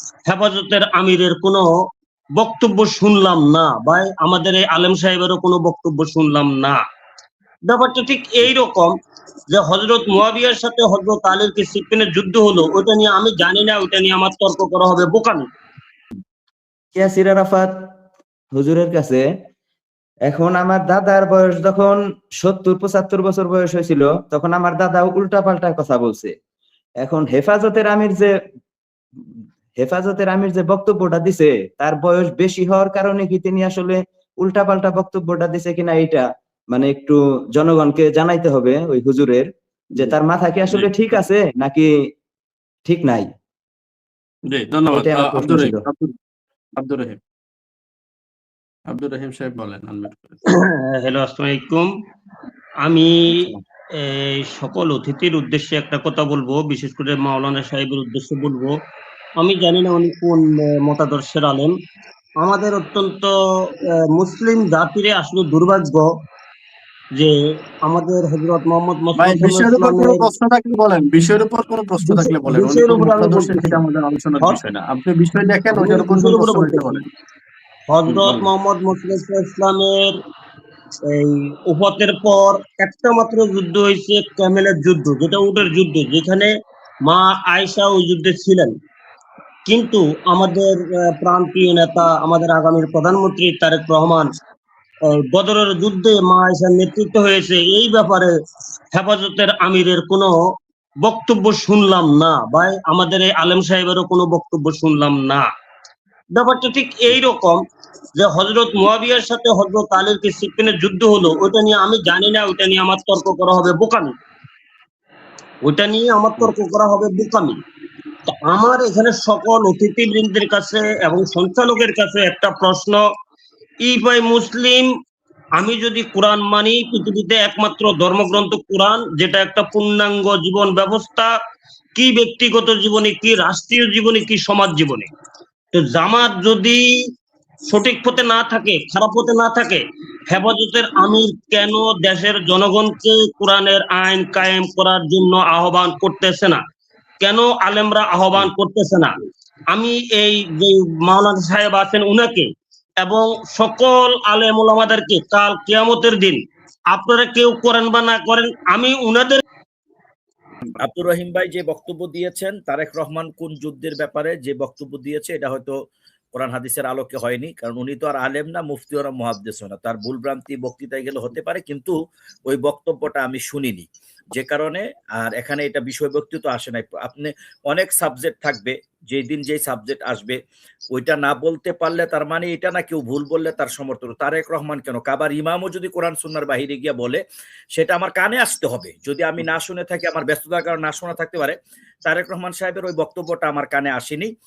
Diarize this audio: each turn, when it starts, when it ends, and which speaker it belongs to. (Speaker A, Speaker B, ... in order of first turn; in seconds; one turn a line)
Speaker A: 0.3-1.7
Speaker A: 2.4-6.8
Speaker A: 7.7-8.9
Speaker A: 9.5-15.4
Speaker B: 16.9-17.7
Speaker B: 18.5-19.2
Speaker B: 20.3-26.3
Speaker B: 27.0-28.3
Speaker B: 29.7-42.0
Speaker C: 40.7-41.2
Speaker B: 42.9-43.3
Speaker C: 44.5-46.1
Speaker B: 44.9-45.8
Speaker C: 46.8-47.2
Speaker C: 48.9-50.4
Speaker A: 50.9-51.9
Speaker A: 52.8-53.5
Speaker A: 54.0-58.7
Speaker A: 59.4-61.7
Speaker A: 62.4-63.4
Speaker A: 63.9-66.1
Speaker A: 67.2-70.2
Speaker C: 69.2-77.0
Speaker A: 72.0-73.8
Speaker A: 75.7-76.9
Speaker A: 77.9-80.1
Speaker C: 78.1-78.5
Speaker A: 81.1-86.5
Speaker A: 87.0-88.7
Speaker A: 89.7-94.3
Speaker A: 95.1-98.3
Speaker A: 98.9-100.4
Speaker A: 101.0-105.5
Speaker A: 106.3-107.6
Speaker A: 108.2-114.1
Speaker A: 115.6-117.6
Speaker A: 118.3-123.0
Speaker A: 123.8-124.9
Speaker A: 125.6-131.3
Speaker A: 131.9-135.1
Speaker A: 135.7-136.8
Speaker A: 137.7-146.6
Speaker A: 147.2-149.1
Speaker A: 149.7-152.5
Speaker A: 153.0-156.4
Speaker A: 156.9-159.4
Speaker D: 160.8-165.8
Speaker D: 166.3-171.9
Speaker D: 172.5-180.4
Speaker D: 180.9-187.2
Speaker D: 187.7-194.3